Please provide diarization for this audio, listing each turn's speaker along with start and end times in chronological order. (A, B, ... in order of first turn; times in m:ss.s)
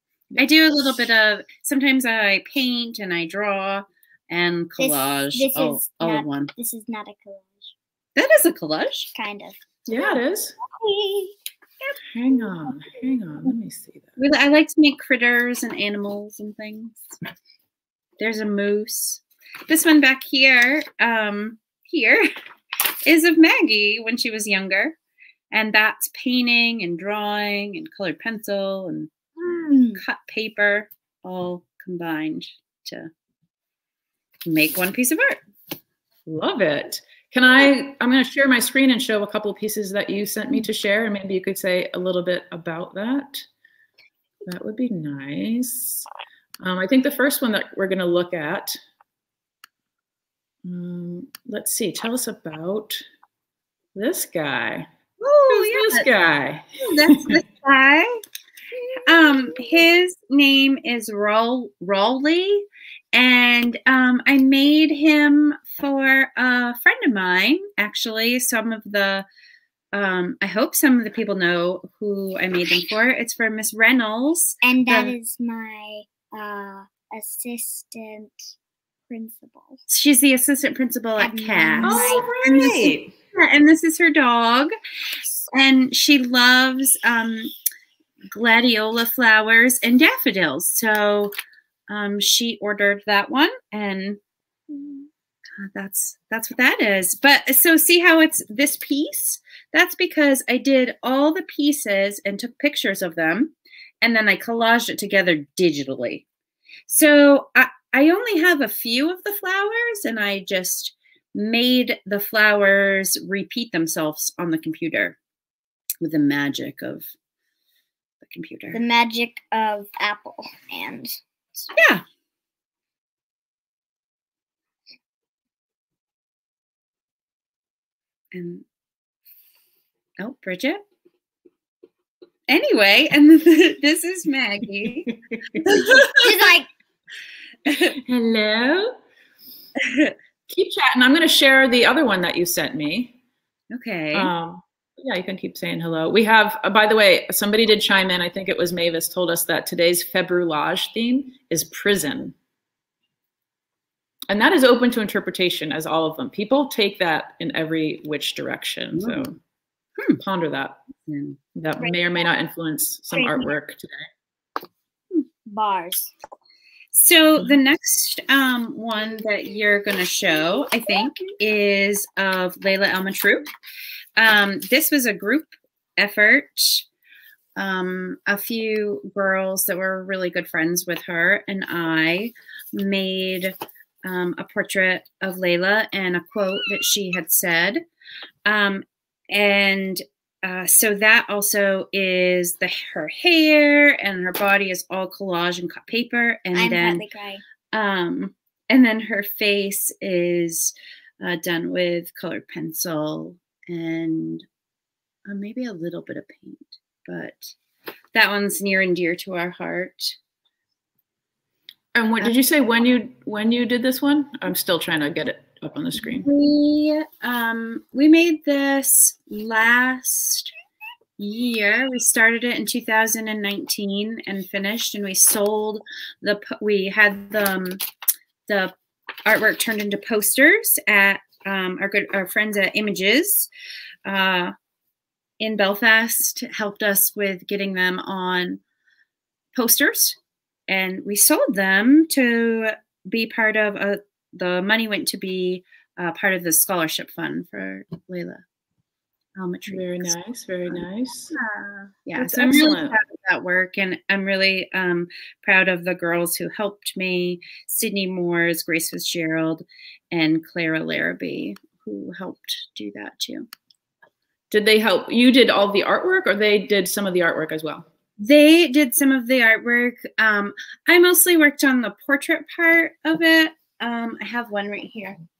0:00.4-0:06.5 A
0:04.8-0:07.7 B
0:08.2-0:09.1 A
0:09.1-0:12.0 B
0:09.9-0:10.6 C
0:12.1-0:14.2 C
0:14.2-0:17.1 A
0:18.2-0:22.3 A
0:23.0-0:25.0 A
0:25.5-0:29.1 A
0:29.4-0:30.0 B
0:29.9-0:33.1 A
0:34.4-0:35.4 A
0:36.2-0:43.5 C
0:44.4-0:46.1 C
0:46.6-0:48.8 C
0:50.6-0:53.0 C
0:53.9-0:54.9 C
0:55.2-0:56.1 A
0:55.5-0:57.4 C
0:56.8-0:58.2 A
0:59.0-1:09.2 A
1:09.9-1:15.1 A
1:14.6-1:18.4 B
1:19.1-1:19.8 B
1:19.9-1:24.7 A
1:21.2-1:22.8 B
1:21.8-1:23.1 C
1:25.4-1:27.5 A
1:28.3-1:31.3 A
1:31.9-1:34.2 A
1:35.6-1:46.2 A
1:46.9-1:55.2 A
1:56.0-1:57.1 A
1:58.2-1:58.8 A
1:58.7-2:01.2 B
2:01.7-2:02.0 A
2:08.3-2:08.6 A
2:10.2-2:10.8 A
2:12.5-2:16.4 A
2:16.0-2:16.7 B
2:17.7-2:17.9 A
2:17.9-2:18.9 C
2:19.8-2:20.1 A
2:20.5-2:23.1 C
2:23.7-2:24.3 A
2:24.1-2:32.3 C
2:34.3-2:39.4 C
2:39.0-2:39.2 A
2:40.2-2:40.8 C
2:41.0-2:41.4 A
2:41.5-2:44.0 C
2:43.2-2:43.5 B
2:45.4-2:46.1 B
2:46.9-2:53.5 A
2:54.2-2:56.8 A
2:57.6-3:07.8 A
3:08.4-3:17.0 A
3:16.5-3:17.4 B
3:17.7-3:24.4 A
3:25.2-3:27.5 A
3:28.1-3:30.2 A
3:31.9-3:36.3 C
3:36.2-3:40.5 A
3:41.2-3:47.8 A
3:48.5-3:48.7 A
3:49.2-3:53.5 A
3:54.0-3:54.5 A
3:55.4-3:58.6 A
3:59.5-4:08.4 A
4:09.4-4:10.1 A
4:09.7-4:11.3 C
4:10.7-4:23.5 A
4:12.1-4:13.0 C
4:24.5-4:27.8 C
4:28.2-4:35.2 A